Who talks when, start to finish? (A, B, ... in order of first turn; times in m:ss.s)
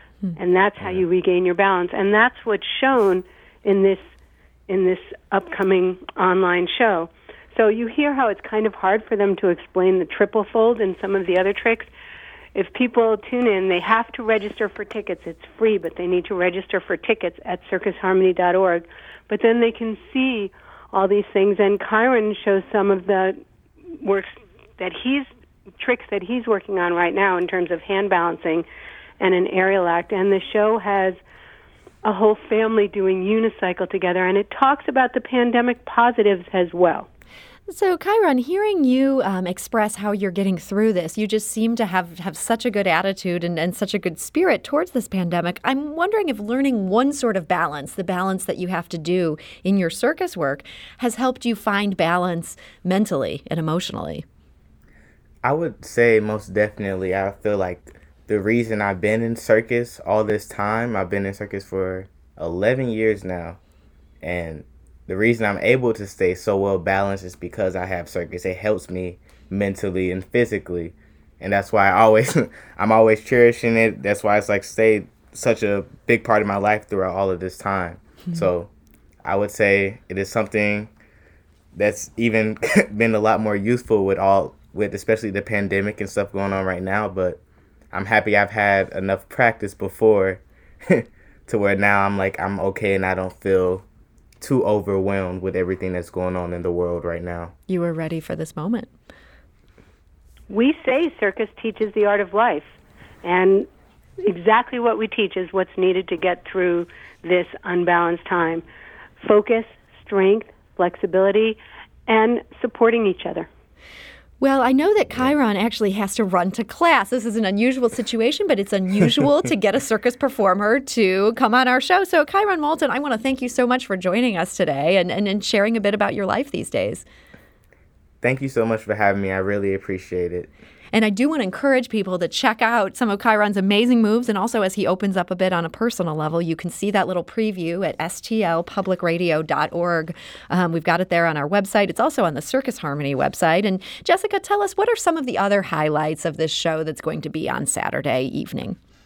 0:00.4-0:04.0 A
0:04.7-0:11.9 A
0:12.5-0:23.4 A
0:24.0-0:25.3 A
0:25.8-0:28.6 A
0:29.2-0:31.2 A
0:32.0-0:37.1 A
0:37.7-0:54.2 B
0:55.4-1:03.6 C
1:04.2-1:18.7 C
1:19.2-1:20.9 C
1:21.7-1:27.4 C
1:27.9-1:33.8 C
1:34.4-1:37.5 C
1:37.7-1:38.9 B
1:40.5-1:43.7 A
1:44.2-1:48.6 A
1:49.2-1:53.5 A
1:54.4-2:07.0 B
2:08.2-2:10.5 C
2:10.9-2:28.8 B